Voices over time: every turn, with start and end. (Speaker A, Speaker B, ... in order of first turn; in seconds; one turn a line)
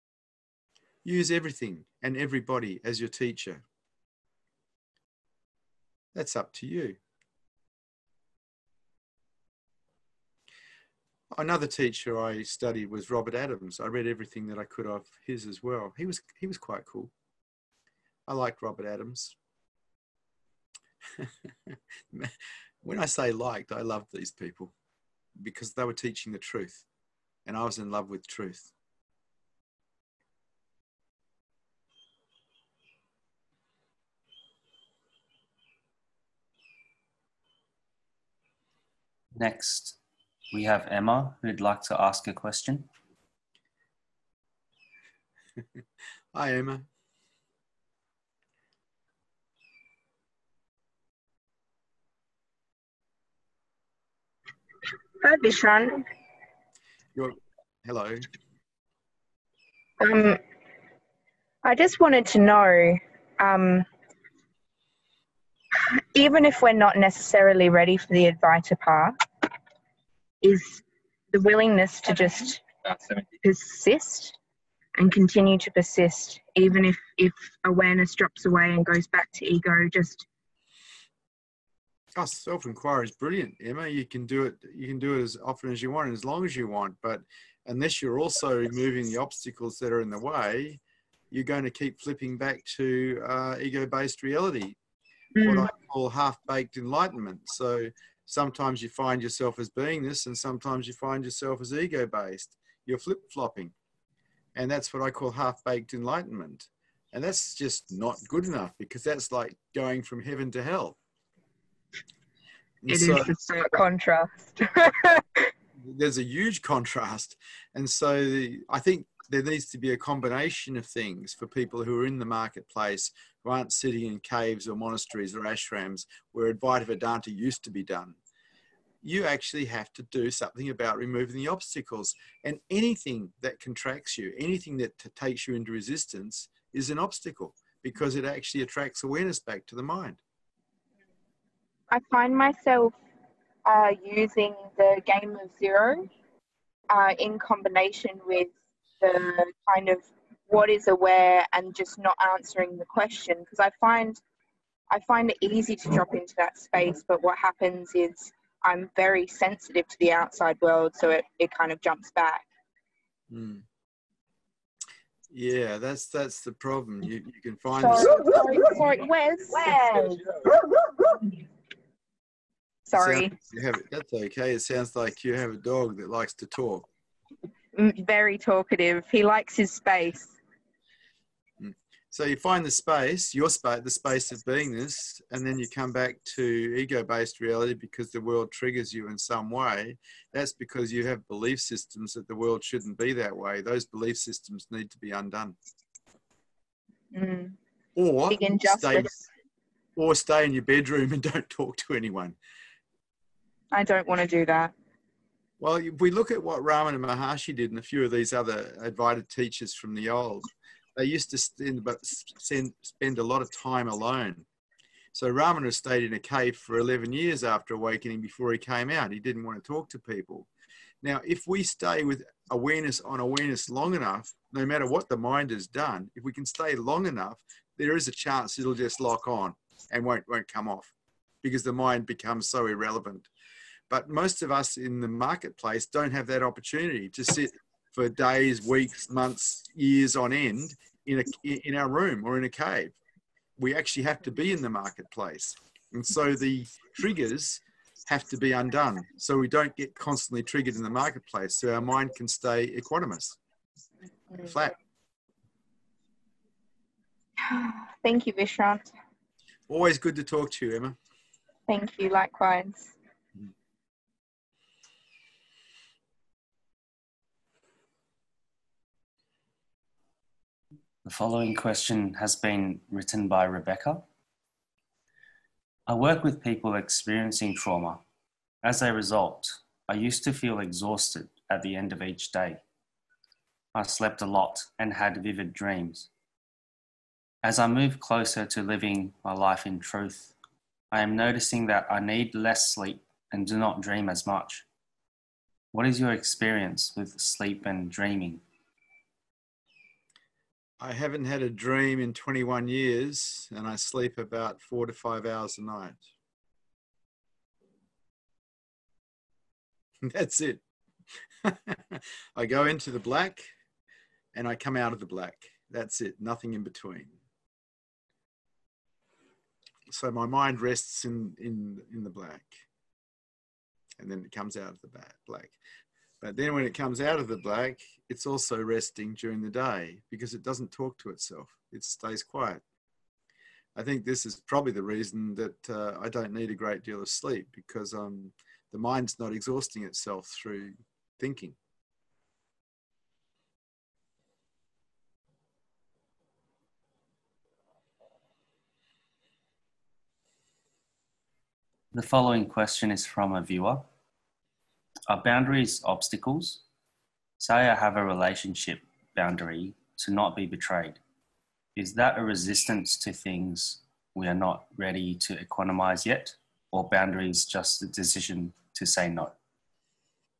Speaker A: 1.0-3.6
Speaker A: 6.1-7.0
Speaker A: 11.3-17.1
Speaker A: 18.3-19.4
Speaker A: 21.2-24.7
Speaker A: 25.4-26.8
Speaker A: 27.4-28.7
Speaker B: 39.3-40.0
Speaker B: 40.5-42.9
Speaker A: 46.3-46.9
Speaker C: 55.2-56.0
Speaker A: 57.1-58.3
Speaker C: 60.0-60.4
Speaker C: 61.6-63.9
Speaker C: 65.7-69.2
Speaker C: 70.4-74.4
Speaker C: 75.0-80.2
Speaker A: 82.1-94.8
Speaker C: 95.4-95.7
Speaker A: 95.4-103.7
Speaker A: 104.5-111.0
Speaker A: 112.8-113.3
Speaker C: 112.9-115.5
Speaker A: 115.8-128.2
Speaker A: 129.0-140.2
Speaker C: 141.9-143.0
Speaker C: 143.6-146.1
Speaker C: 146.9-154.2
Speaker C: 154.9-162.4
Speaker A: 163.3-163.6
Speaker A: 165.3-168.2
Speaker C: 167.8-170.3
Speaker C: 172.9-173.3
Speaker A: 172.9-176.9
Speaker C: 177.7-180.4
Speaker A: 181.6-195.6
Speaker C: 197.1-197.6
Speaker A: 197.9-199.1
Speaker C: 198.3-199.2
Speaker A: 199.9-202.4
Speaker C: 203.7-204.7
Speaker A: 205.6-214.4
Speaker A: 215.1-220.5
Speaker A: 221.0-233.3
Speaker A: 233.9-242.9
Speaker A: 243.6-253.4
Speaker A: 254.3-254.7
Speaker C: 257.4-258.9
Speaker A: 259.7-260.9
Speaker C: 261.7-262.9
Speaker B: 271.0-274.1
Speaker B: 275.9-278.0
Speaker B: 278.6-282.6
Speaker B: 283.7-286.1
Speaker B: 287.4-290.4
Speaker B: 290.9-294.6
Speaker B: 295.7-298.4
Speaker A: 300.8-306.0
Speaker A: 310.0-310.6
Speaker A: 311.4-313.5
Speaker A: 314.3-317.2
Speaker A: 319.9-322.6
Speaker A: 324.0-325.6
Speaker A: 326.2-332.6
Speaker A: 333.7-341.6
Speaker B: 351.9-353.9
Speaker B: 355.1-356.6
Speaker B: 357.4-361.0
Speaker B: 361.8-369.3